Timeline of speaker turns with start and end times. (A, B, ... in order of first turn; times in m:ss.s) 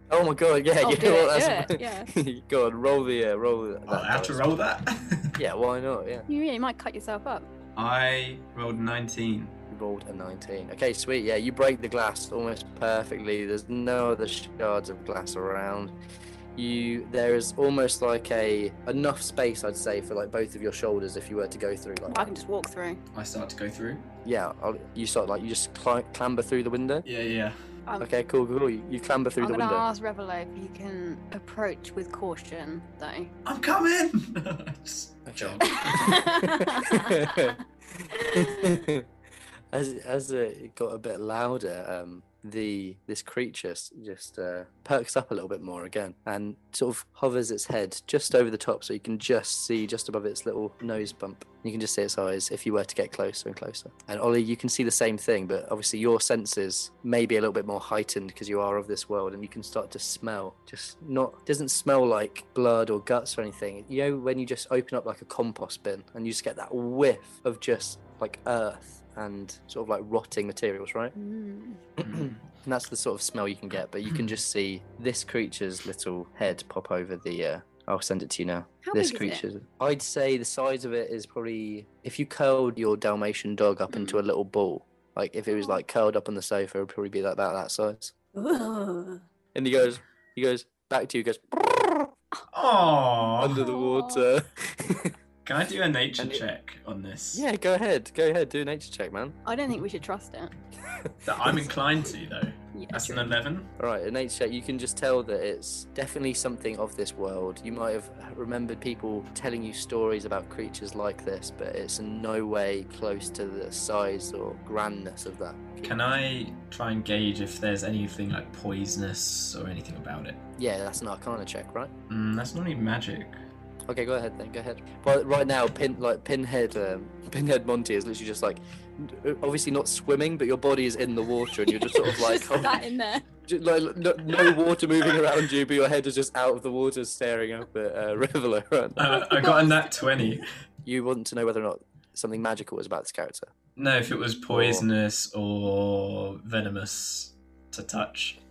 0:00.1-0:04.4 A
0:00.8-0:02.1 B
0:03.9-0:05.4 C
0:05.4-0:06.2 A
0:06.3-0:07.5 B
0:07.8-0:09.5 C
0:09.7-0:15.9 A
0:16.5-0:22.4 A
0:22.1-0:23.0 B
0:23.1-0:24.1 C
0:24.2-0:27.0 A
0:27.0-0:27.6 C
0:28.0-0:29.8 A
0:29.4-0:33.3 B
0:33.4-0:36.1 C
0:35.2-0:39.1 A
0:35.6-0:37.6 B
0:38.1-0:38.8 B
0:39.7-1:11.1 A
1:11.1-1:11.8 B
1:12.0-1:28.1 A
1:12.0-1:12.3 C
1:18.8-1:19.4 B
1:23.9-1:24.2 B
1:25.5-1:25.8 B
1:28.3-1:29.2 B
1:29.5-1:32.1 A
1:32.5-1:33.6 C
1:33.4-1:35.1 A
1:33.6-1:34.3 B
1:35.4-1:37.4 C
1:36.2-1:36.4 A
1:37.3-1:39.3 A
1:39.4-1:40.5 B
1:40.8-1:41.6 A
1:41.2-1:43.7 C
1:42.7-1:43.3 B
1:43.8-1:55.9 A
1:55.8-2:00.4 C
2:00.6-2:01.9 A
2:02.1-2:03.4 C
2:03.9-2:12.8 A
2:11.7-2:13.2 B
2:13.4-2:19.1 A
2:19.0-2:20.4 C
2:19.1-2:20.1 B
2:20.8-2:23.5 A
2:23.8-2:28.4 C
2:24.5-2:24.8 A